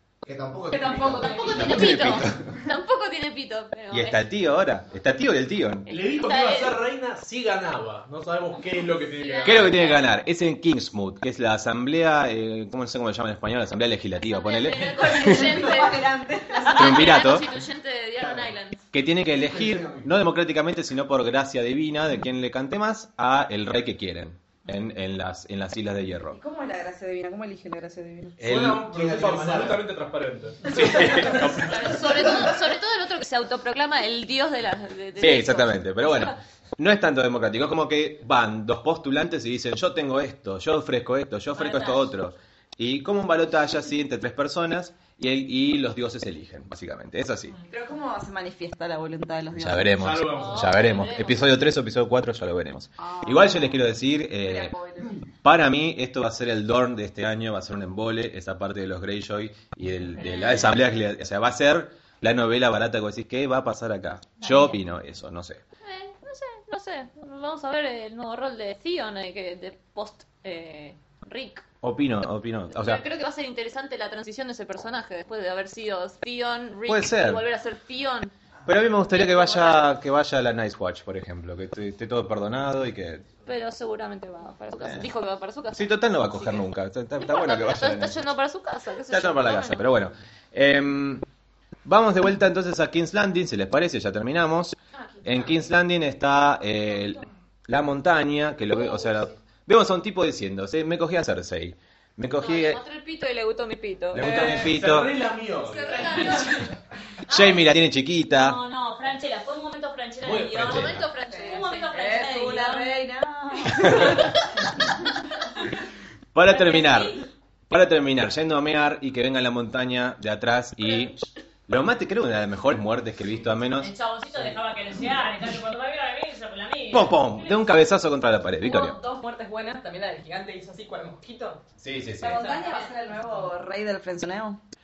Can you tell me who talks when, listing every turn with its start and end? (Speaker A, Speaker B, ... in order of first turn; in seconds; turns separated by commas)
Speaker A: 0.2-1.6, Speaker B: 0.7-2.0, Speaker C: 1.2-4.2, Speaker D: 1.5-2.5, Speaker D: 3.9-5.9, Speaker C: 5.9-6.8, Speaker E: 5.9-9.8, Speaker C: 9.2-10.0, Speaker D: 9.4-15.6, Speaker C: 14.2-18.8, Speaker F: 14.8-17.3, Speaker D: 16.7-17.5, Speaker A: 18.2-18.5, Speaker D: 18.9-26.4, Speaker A: 19.3-20.1, Speaker F: 26.3-28.4, Speaker E: 28.4-31.3, Speaker D: 28.4-28.9, Speaker A: 28.9-29.8, Speaker D: 30.7-32.4, Speaker C: 30.9-36.3, Speaker D: 35.2-47.5, Speaker G: 41.5-42.1, Speaker F: 47.7-50.0, Speaker D: 49.5-54.8, Speaker E: 50.0-50.7, Speaker C: 50.3-51.4, Speaker F: 53.0-53.9, Speaker F: 54.4-55.2, Speaker D: 55.4-65.6, Speaker C: 60.2-60.7, Speaker C: 65.8-71.6, Speaker D: 71.8-73.0, Speaker C: 72.7-78.3, Speaker D: 76.9-77.4, Speaker D: 78.7-83.2, Speaker C: 79.1-80.0, Speaker C: 83.5-86.6, Speaker D: 84.8-85.1, Speaker D: 85.7-88.2, Speaker C: 87.2-89.9, Speaker D: 89.1-91.2, Speaker D: 91.8-102.8, Speaker C: 95.0-95.7, Speaker C: 102.4-104.7, Speaker D: 104.1-105.2, Speaker E: 104.2-106.7, Speaker C: 105.6-106.7, Speaker G: 105.7-106.7, Speaker D: 107.3-108.6, Speaker G: 107.3-107.6, Speaker G: 108.2-112.9, Speaker D: 110.2-111.0, Speaker C: 110.5-111.9, Speaker F: 111.3-114.3, Speaker D: 116.3-124.5, Speaker G: 116.5-117.3, Speaker G: 123.8-127.8, Speaker D: 126.9-129.0, Speaker B: 128.6-131.6, Speaker D: 131.8-132.5, Speaker F: 132.2-134.6, Speaker G: 132.5-132.9